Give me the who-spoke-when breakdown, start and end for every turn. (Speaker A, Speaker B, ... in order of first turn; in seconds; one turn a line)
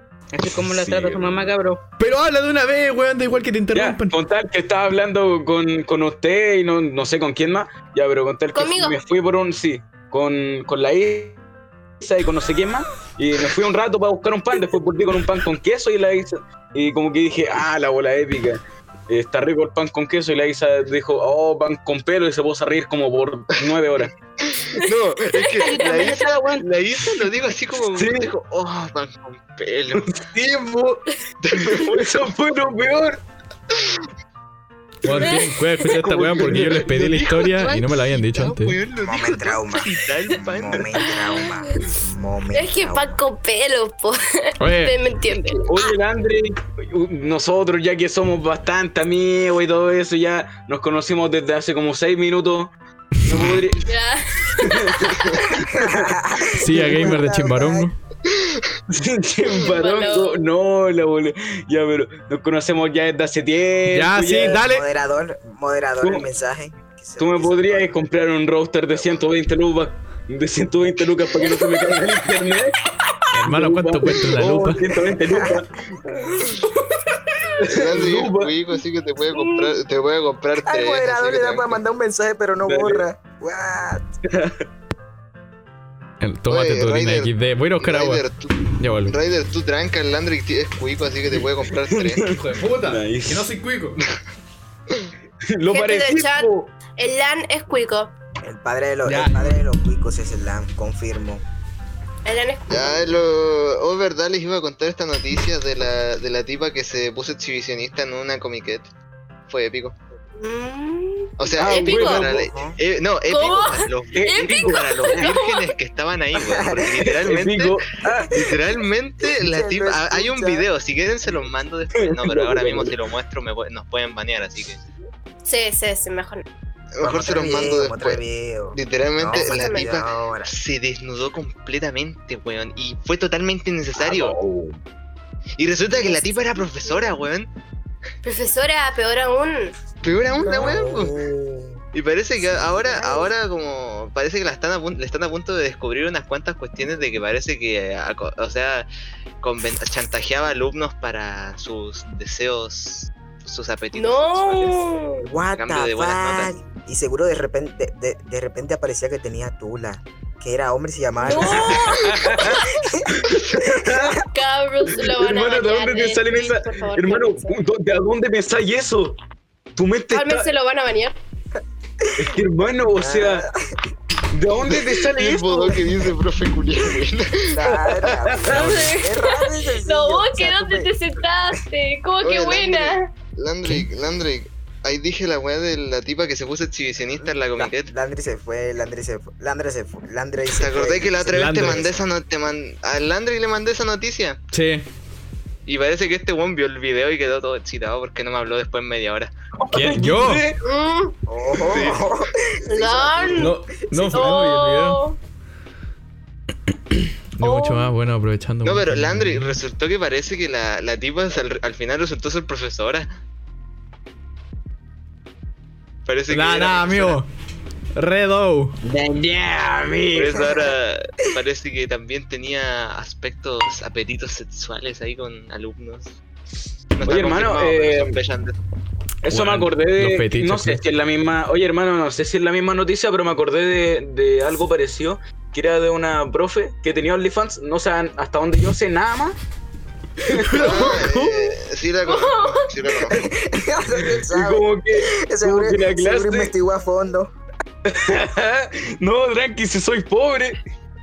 Speaker A: 0.3-1.8
Speaker B: 0.5-1.4
Speaker C: 2.0-4.2
Speaker B: 3.7-11.4
Speaker D: 8.5-9.0
Speaker B: 12.0-24.1
Speaker E: 24.4-30.2
Speaker D: 25.6-26.0
Speaker A: 25.6-26.7
Speaker B: 27.9-28.3
Speaker B: 30.0-31.0
Speaker E: 31.4-32.1
Speaker B: 31.6-33.2
Speaker C: 35.0-38.8
Speaker B: 35.9-37.0
Speaker E: 36.3-41.2
Speaker F: 39.0-43.2
Speaker D: 41.2-41.5
Speaker D: 42.5-45.9
Speaker C: 44.6-45.0
Speaker B: 45.5-52.7
Speaker B: 53.2-54.0
Speaker D: 53.9-55.0
Speaker B: 54.6-56.1
Speaker F: 55.6-57.9
Speaker C: 56.5-58.0
Speaker B: 58.9-64.7
Speaker D: 59.5-60.4
Speaker C: 63.9-64.9
Speaker F: 64.5-68.1
Speaker B: 67.2-72.8
Speaker C: 73.3-74.8
Speaker B: 73.4-76.2
Speaker F: 75.1-75.7
Speaker B: 77.6-78.5
Speaker E: 77.7-81.8
Speaker D: 79.3-79.8
Speaker F: 80.6-84.2
Speaker B: 82.7-83.0
Speaker B: 84.3-84.6
Speaker C: 86.2-88.2
Speaker E: 86.5-92.2
Speaker C: 88.8-89.2
Speaker B: 91.8-93.5
Speaker C: 92.3-94.0
Speaker B: 95.5-96.7
Speaker D: 95.7-98.1
Speaker F: 98.4-101.4
Speaker C: 99.0-99.6
Speaker D: 102.2-103.1
Speaker E: 102.7-108.9
Speaker E: 109.5-110.0
Speaker D: 110.4-112.2
Speaker E: 111.4-124.8
Speaker B: 111.6-112.4
Speaker F: 112.2-112.8
Speaker D: 113.3-115.7
Speaker B: 114.1-115.3
Speaker F: 116.4-116.8
Speaker B: 117.0-118.5
Speaker F: 118.0-118.5
Speaker F: 119.2-120.7
Speaker B: 122.0-123.0
Speaker D: 125.5-126.5
Speaker E: 127.0-128.2
Speaker F: 127.0-130.6
Speaker E: 128.7-134.4
Speaker D: 129.3-129.9
Speaker B: 134.0-134.8
Speaker E: 135.6-137.5
Speaker F: 136.0-136.3
Speaker D: 136.0-136.3
Speaker D: 136.8-137.1
Speaker D: 138.2-139.7
Speaker E: 140.0-141.2
Speaker F: 140.4-141.8
Speaker E: 141.9-148.9
Speaker F: 142.4-143.3
Speaker E: 149.4-154.9
Speaker D: 153.9-155.3
Speaker F: 155.2-163.2
Speaker E: 155.5-156.5
Speaker D: 161.2-162.7
Speaker B: 161.3-162.6
Speaker B: 163.2-164.2
Speaker D: 164.1-167.5
Speaker B: 164.9-169.2
Speaker B: 169.8-170.5
Speaker D: 170.1-171.2
Speaker B: 172.2-173.5
Speaker F: 173.0-173.8
Speaker B: 174.3-175.8
Speaker E: 175.1-177.7
Speaker F: 177.5-180.9
Speaker B: 178.0-178.7
Speaker D: 178.5-183.1
Speaker E: 182.2-187.9
Speaker F: 187.5-192.0
Speaker E: 190.5-194.4
Speaker C: 191.3-191.9
Speaker C: 194.5-194.9
Speaker E: 195.7-199.3
Speaker B: 199.6-200.6
Speaker C: 199.7-200.4
Speaker D: 200.6-201.1
Speaker F: 201.3-203.4
Speaker E: 201.5-202.2
Speaker D: 202.7-205.2
Speaker C: 203.3-205.0
Speaker C: 206.9-209.6
Speaker D: 207.4-207.9
Speaker E: 208.6-213.1
Speaker E: 216.1-217.2
Speaker C: 216.3-217.3
Speaker C: 218.0-218.8
Speaker B: 218.8-220.4
Speaker E: 220.1-226.2
Speaker F: 220.3-220.7
Speaker E: 227.0-228.6
Speaker B: 227.1-228.2
Speaker B: 229.2-239.4
Speaker C: 229.3-230.8
Speaker B: 240.3-240.6
Speaker C: 240.3-241.4
Speaker E: 240.6-243.3
Speaker D: 242.1-242.7
Speaker F: 243.1-247.3
Speaker B: 244.1-246.5
Speaker B: 247.9-250.6